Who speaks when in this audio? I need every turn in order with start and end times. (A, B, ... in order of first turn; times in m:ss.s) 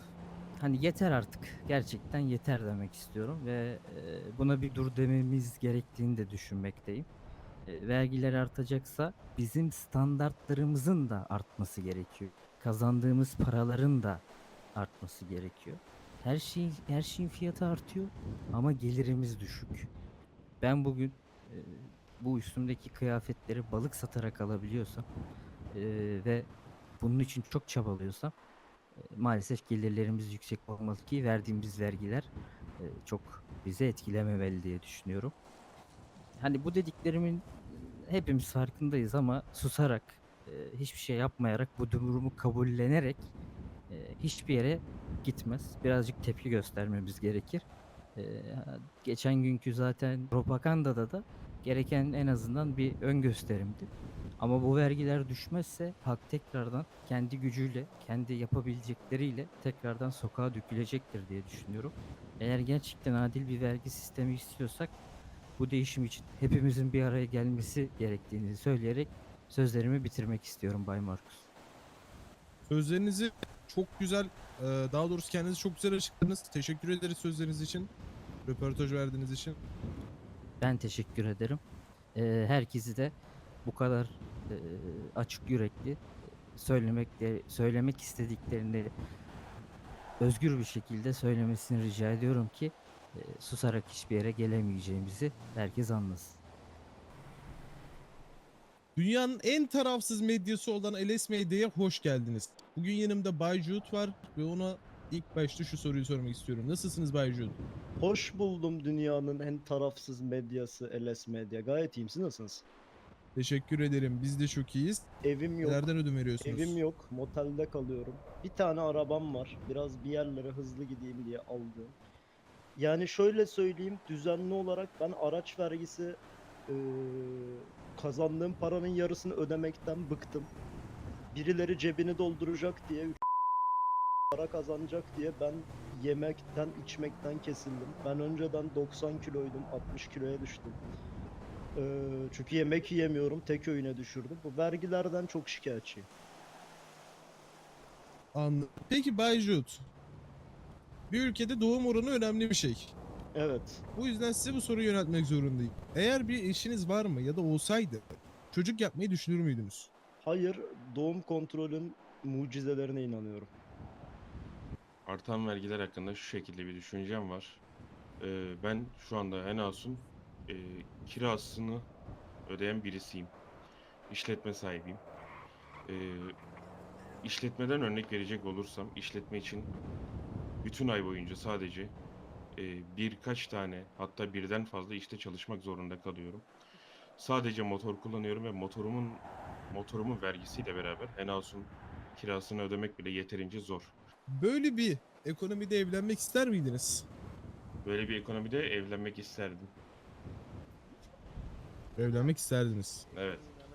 0:00.6-0:07.0 A
0:07.6-0:14.2 A
0:14.7-0:19.9 A
0:20.6-0:25.0 A
0:25.7-0:28.3 A
0:29.0-0:35.3 A
0:36.4-0:43.2 A
0:43.9-1:04.9 A
1:05.6-1:11.4 A
1:12.7-1:17.9 B
1:18.4-1:19.6 B
1:20.6-1:21.6 A
1:22.1-1:28.9 A
1:30.2-1:36.4 A
1:39.0-1:47.6 B
1:48.0-1:52.5 C
1:53.3-1:55.1 B
1:55.4-1:55.8 C
1:55.6-1:56.8 B
1:56.4-2:01.9 C
2:03.0-2:06.0 C
2:08.2-2:10.4 C
2:11.5-2:13.0 C
2:14.4-2:20.7 C
2:21.9-2:26.0 C
2:28.3-2:29.8 B
2:31.1-2:32.9 B
2:33.4-2:33.7 C
2:33.9-2:39.9 B
2:40.4-2:43.4 C
2:45.0-2:47.6 D
2:48.2-2:51.9 D
2:52.5-2:53.3 D
2:54.1-2:55.0 D
2:55.8-2:56.4 D
2:57.2-2:59.7 D
3:00.6-3:02.0 D
3:02.5-3:06.5 D
3:07.2-3:13.9 D
3:14.3-3:17.0 B
3:17.8-3:19.7 D
3:22.0-3:23.0 B
3:23.1-3:23.5 D